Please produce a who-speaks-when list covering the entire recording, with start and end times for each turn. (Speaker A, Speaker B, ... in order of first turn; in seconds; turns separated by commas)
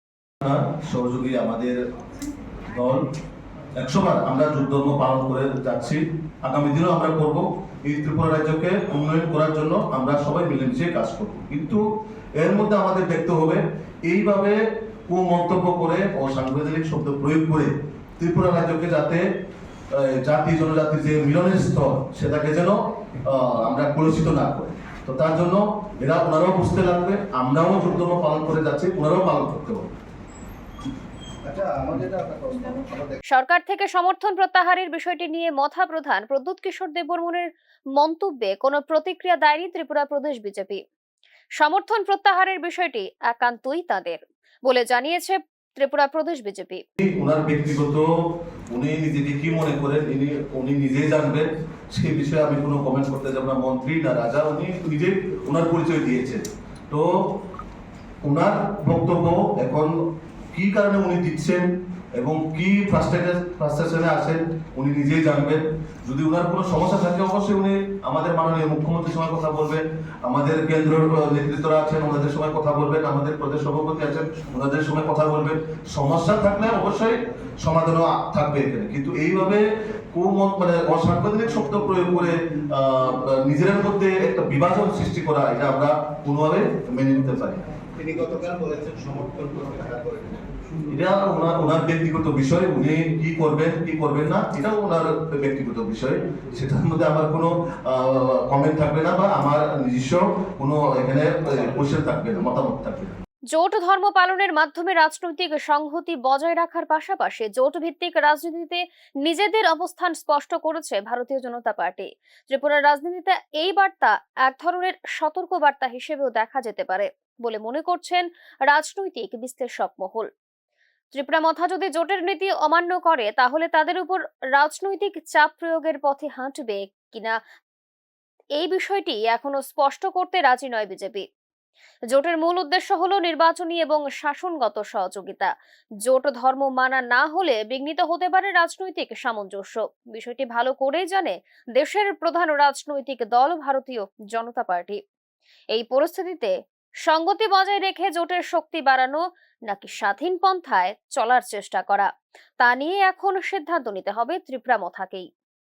Speaker A: 0.4-1.8, Speaker A: 2.7-3.0, Speaker A: 3.8-11.8, Speaker A: 12.4-14.6, Speaker A: 15.1-19.2, Speaker A: 19.9-29.9, Speaker B: 31.4-33.2, Speaker C: 33.3-40.8, Speaker C: 41.6-46.8, Speaker A: 47.0-48.1, Speaker A: 48.7-57.1, Speaker A: 58.2-60.0, Speaker A: 60.5-87.7, Speaker B: 88.0-90.5, Speaker A: 90.9-103.2, Speaker C: 103.5-120.3, Speaker C: 121.1-127.4, Speaker C: 128.6-131.3, Speaker C: 132.1-135.5, Speaker C: 136.1-145.0, Speaker C: 145.7-146.5, Speaker C: 147.1-155.3